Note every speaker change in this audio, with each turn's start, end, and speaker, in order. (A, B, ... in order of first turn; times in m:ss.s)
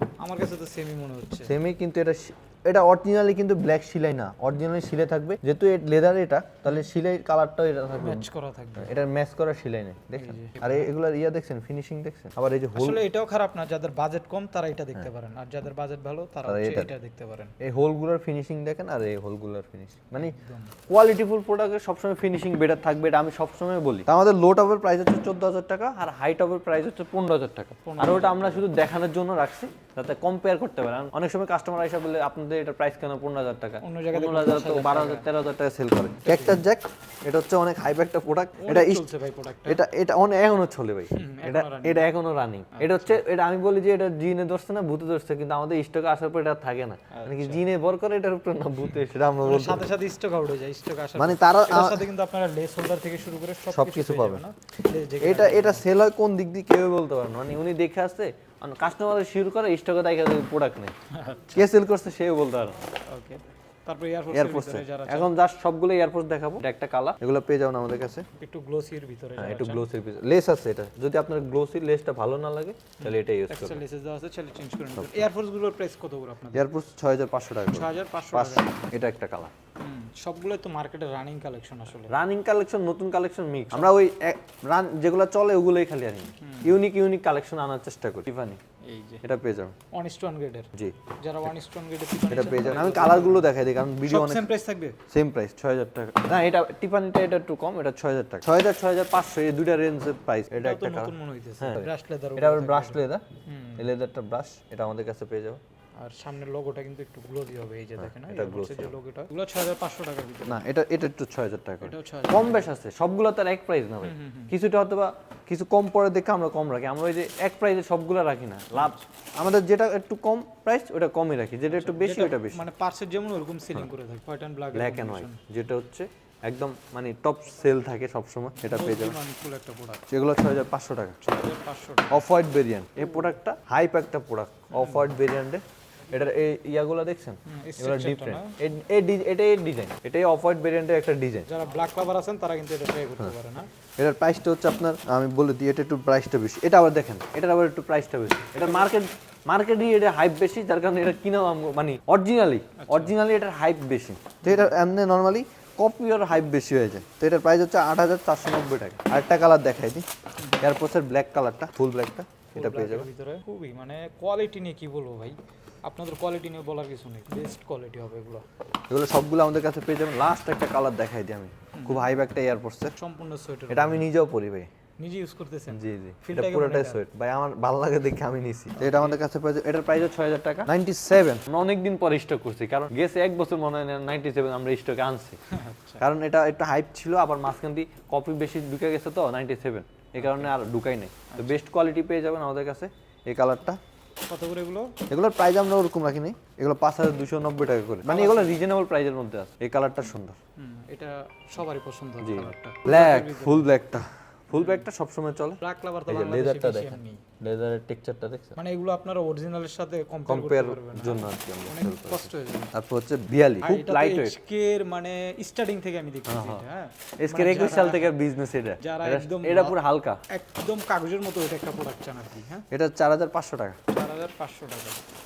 0:00.2-0:01.6 A
0:01.4-0:08.3 B
0:08.0-0:08.9 A
0:08.8-0:13.0 B
0:10.2-0:10.9 A
0:12.8-0:17.6 A
0:16.5-0:16.9 B
0:17.6-0:20.4 B
0:20.1-0:20.8 A
0:20.9-0:39.1 B
0:27.8-0:28.7 A
0:33.8-0:35.3 A
0:36.2-0:36.6 A
0:38.6-0:39.8 A
0:39.7-0:49.8 B
0:41.1-0:42.1 A
0:42.7-0:43.2 A
0:47.1-0:47.7 A
0:49.4-0:55.8 A
0:51.2-0:52.0 B
0:53.7-0:54.4 B
0:55.2-1:00.9 B
1:01.1-1:01.7 A
1:01.5-1:02.9 B
1:03.1-1:05.3 A
1:04.3-1:08.3 B
1:08.4-1:09.9 A
1:09.4-1:13.8 B
1:13.0-1:16.7 A
1:15.0-1:15.3 B
1:16.5-1:19.5 B
1:17.7-1:18.9 A
1:19.8-1:22.1 A
1:22.1-1:28.6 B
1:26.4-1:26.8 A
1:28.8-1:29.2 A
1:29.2-1:29.8 B
1:29.9-1:33.5 A
1:30.8-1:31.5 B
1:32.3-1:34.5 B
1:34.0-1:35.0 A
1:35.1-1:43.2 B
1:40.6-1:43.9 A
1:43.8-1:45.6 B
1:46.0-1:50.6 A
1:48.0-1:48.9 B
1:50.4-2:02.7 B
1:51.8-1:52.7 A
1:54.0-1:54.6 A
1:58.7-1:59.0 A
2:01.7-2:05.4 A
2:04.7-2:09.2 B
2:08.6-2:10.1 A
2:10.1-2:11.2 B
2:11.2-2:12.3 A
2:12.1-2:21.5 B
2:13.0-2:13.3 A
2:14.7-2:15.2 A
2:17.4-2:18.6 A
2:21.5-2:23.7 A
2:24.0-2:40.0 B
2:32.8-2:33.2 A
2:34.4-2:34.7 A
2:40.4-2:40.8 A
2:40.6-2:43.1 B
2:42.5-2:48.4 A
2:48.9-2:53.0 B
2:51.7-2:52.1 A
2:53.0-2:54.1 A
2:53.7-2:54.7 B
2:55.0-2:57.0 A
2:55.7-3:05.4 B
2:58.8-2:59.2 A
3:05.5-3:06.0 A
3:06.0-3:13.8 B
3:10.2-3:10.5 A
3:11.3-3:11.6 A
3:14.3-3:15.0 A
3:15.1-3:20.4 B
3:18.0-3:18.6 A
3:20.6-3:23.8 A
3:22.2-3:28.6 B
3:24.5-3:24.8 A
3:25.6-3:27.2 A
3:28.6-3:32.7 A
3:30.3-3:34.3 B
3:33.6-3:38.1 A
3:36.3-3:36.6 B
3:37.2-3:40.2 B
3:38.8-3:42.7 A
3:42.7-3:43.8 B
3:43.9-3:45.0 A